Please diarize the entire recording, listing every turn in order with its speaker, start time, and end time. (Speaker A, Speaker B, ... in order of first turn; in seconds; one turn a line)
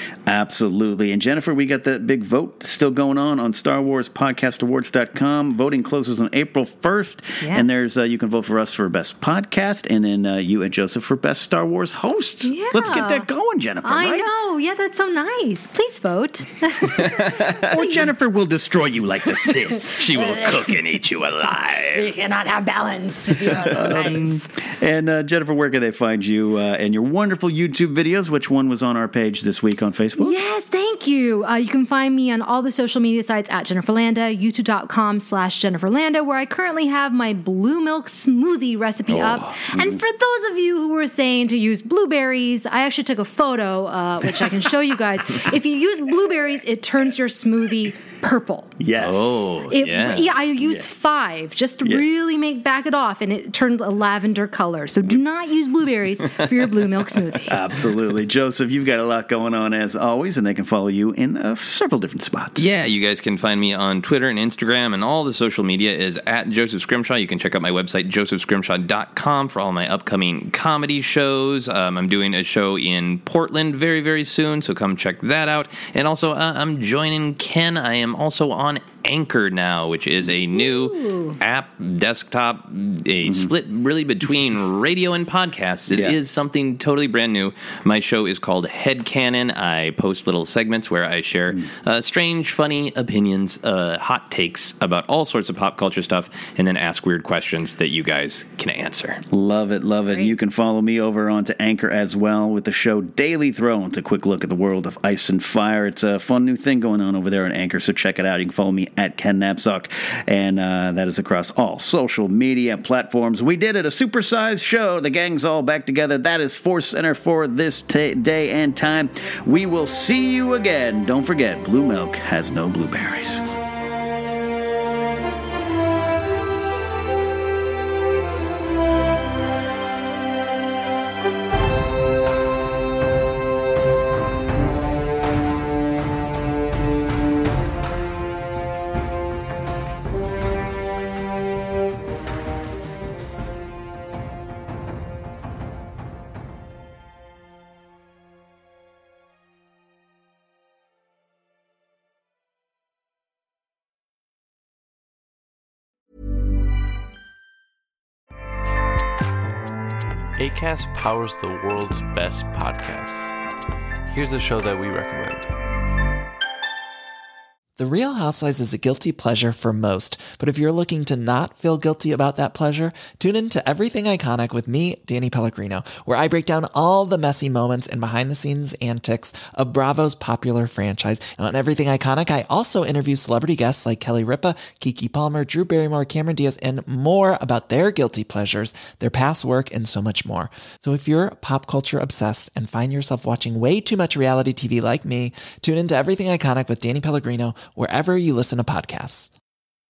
Speaker A: 0.2-14.3
Speaker B: 7.4-7.9
Speaker B: 12.4-13.3
Speaker B: 13.8-18.2
Speaker C: 17.0-17.7
Speaker A: 17.6-20.0
Speaker C: 19.9-22.1
Speaker B: 20.1-20.7
Speaker B: 21.9-24.2
Speaker A: 23.7-30.3
Speaker B: 30.2-48.7
Speaker C: 39.1-39.5
Speaker A: 39.7-40.0
Speaker A: 48.8-49.5
Speaker C: 49.0-50.3
Speaker B: 49.7-57.6
Speaker A: 57.5-62.6
Speaker C: 62.6-99.2
Speaker B: 80.5-81.3
Speaker A: 85.9-86.2
Speaker A: 99.3-123.4
Speaker B: 99.9-100.3
Speaker D: 160.4-163.3
Speaker D: 164.1-165.5
Speaker E: 167.8-199.3